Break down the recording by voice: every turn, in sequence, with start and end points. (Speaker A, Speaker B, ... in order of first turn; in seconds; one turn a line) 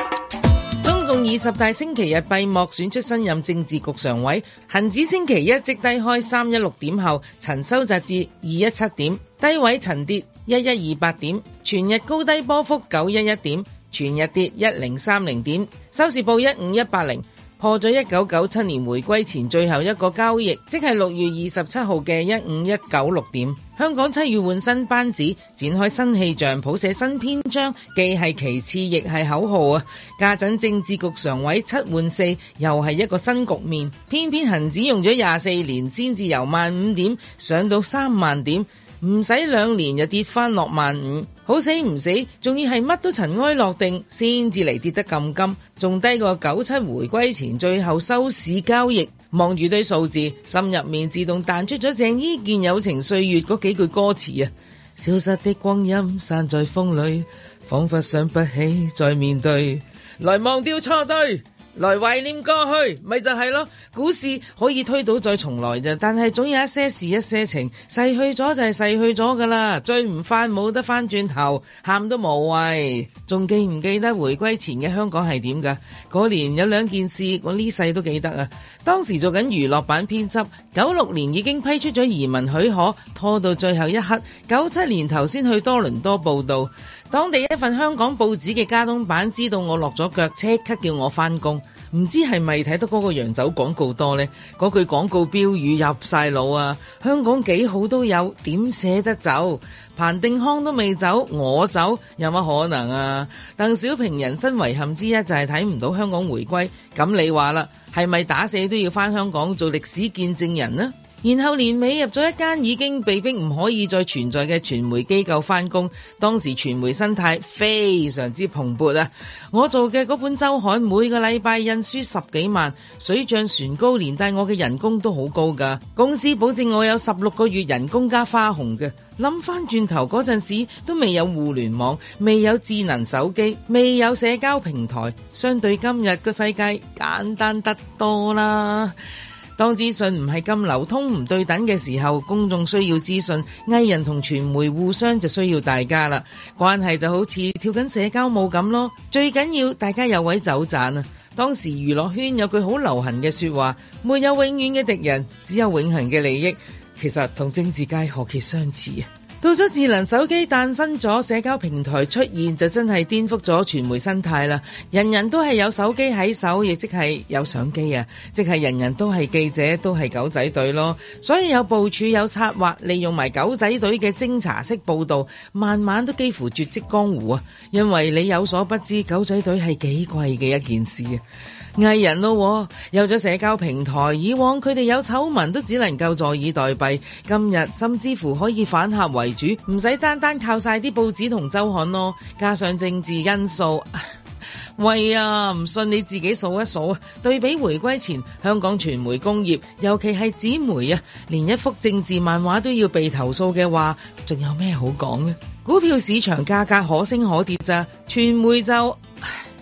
Speaker A: 0.8-138.9
Speaker A: 139.6-181.2
Speaker A: 181.8-194.0
Speaker A: 194.8-209.3